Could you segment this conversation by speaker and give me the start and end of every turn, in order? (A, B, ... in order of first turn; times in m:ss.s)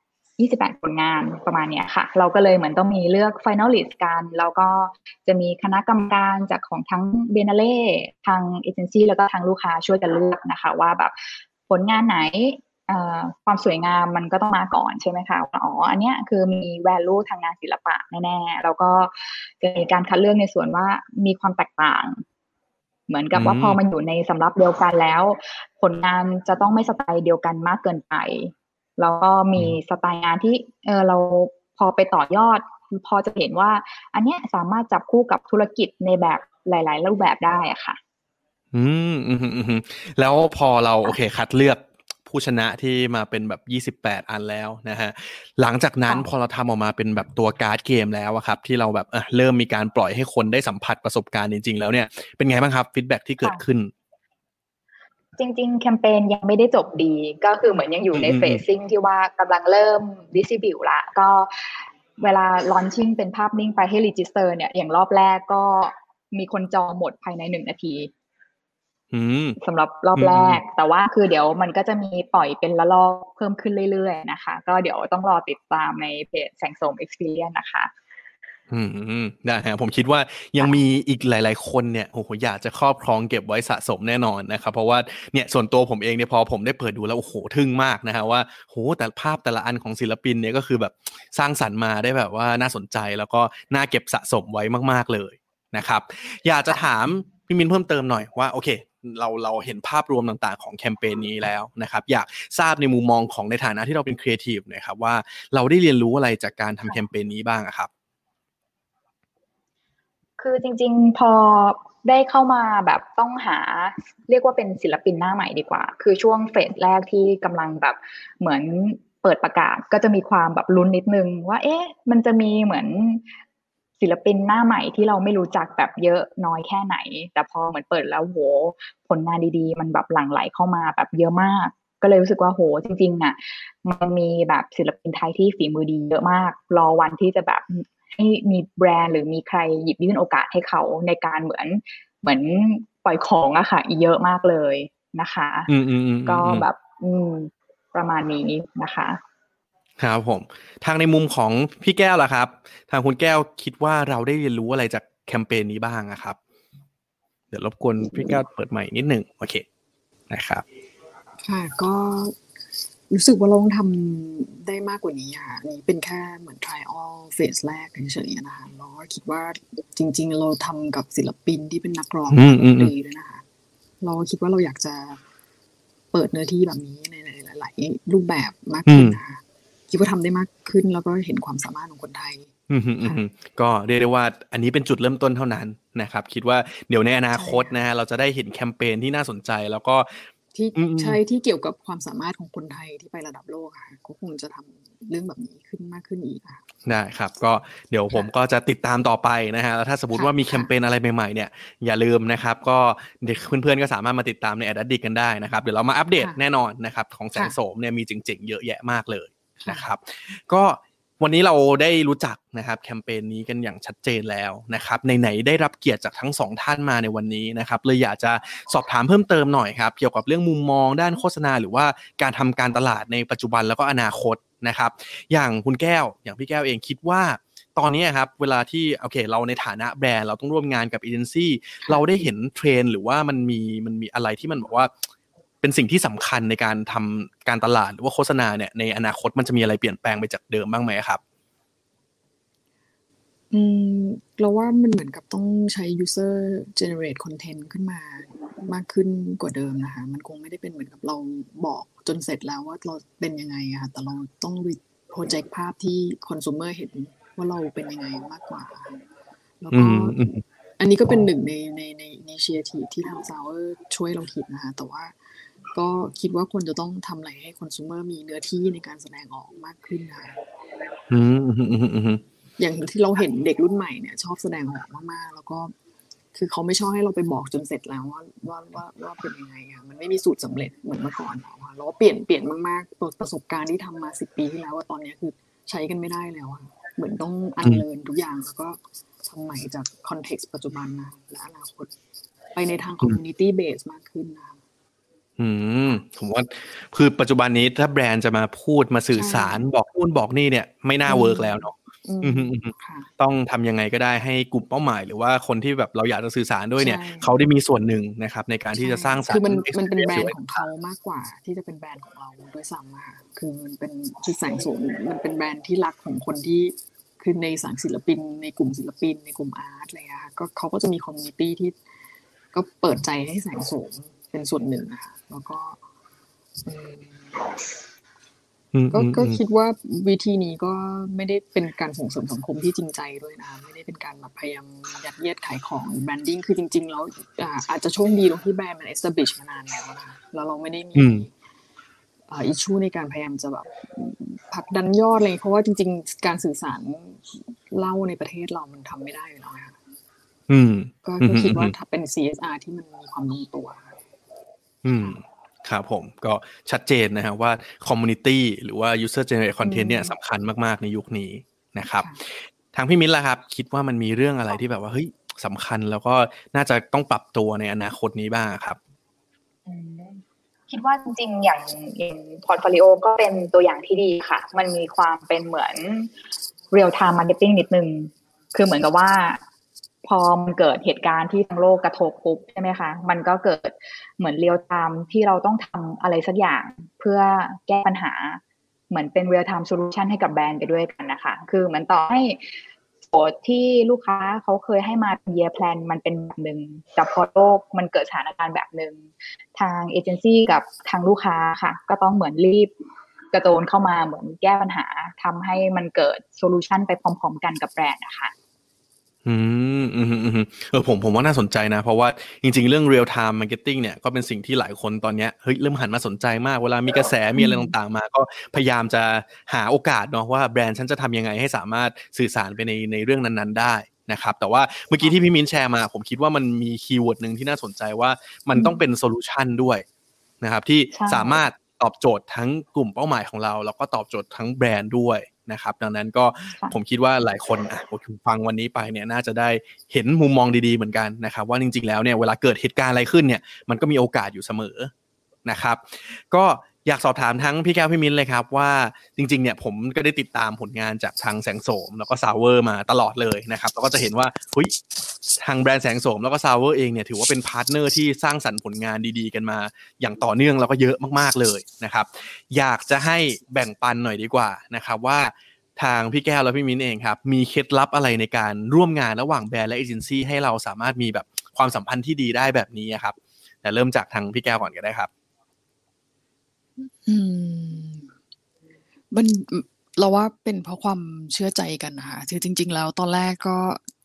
0:00.4-0:22.2 A
0:23.1-0:38.0 A
0:23.3-0:23.8 B
0:38.7-0:53.9 B
0:55.4-1:08.1 A
0:58.1-0:58.6 B
1:09.1-1:09.6 B
1:09.6-1:17.9 A
1:10.2-1:10.6 B
1:18.7-1:47.9 B
1:50.4-2:03.2 A
2:04.0-2:25.7 A
2:25.7-2:26.7 B
2:26.3-2:29.2 A
2:30.0-2:36.4 B
2:37.5-2:39.6 B
2:40.3-2:40.6 B
2:41.4-2:42.4 C
2:43.1-2:53.4 C
2:52.3-2:52.9 B
2:54.0-2:55.2 C
2:56.1-3:02.5 C
2:58.9-2:59.2 B
3:02.7-3:11.2 B
3:07.4-3:07.7 C
3:10.5-3:16.6 C
3:16.8-3:54.9 B
3:20.1-3:20.7 C
3:29.6-3:29.9 C
3:55.6-4:01.2 B
4:03.5-4:19.0 C
4:19.6-4:25.2 C
4:19.7-4:20.4 B
4:25.7-4:30.4 C
4:31.1-4:32.2 B
4:32.6-4:35.7 C
4:36.3-4:51.9 C
4:52.6-4:54.6 C
4:55.4-5:10.4 B
4:59.2-4:59.6 C
5:01.1-5:03.1 C
5:06.8-5:07.4 C
5:08.8-5:21.8 C
5:22.5-5:25.8 C
5:26.6-5:27.5 C
5:28.7-5:29.4 B
5:28.9-5:41.3 C
5:41.0-5:41.3 B
5:42.3-5:49.8 C
5:50.5-5:51.7 B
5:51.0-5:54.0 C
5:54.8-6:08.8 B
6:09.7-6:16.1 A
6:16.7-6:19.4 A
6:20.0-6:32.6 A
6:33.1-6:42.7 A
6:43.3-6:48.3 A
6:49.2-7:09.8 B
7:08.6-7:08.8 A
7:10.4-7:24.9 B
7:10.9-7:11.4 A
7:25.4-7:34.8 B
7:35.4-7:55.1 B
7:56.8-7:58.1 C
7:59.1-8:03.8 C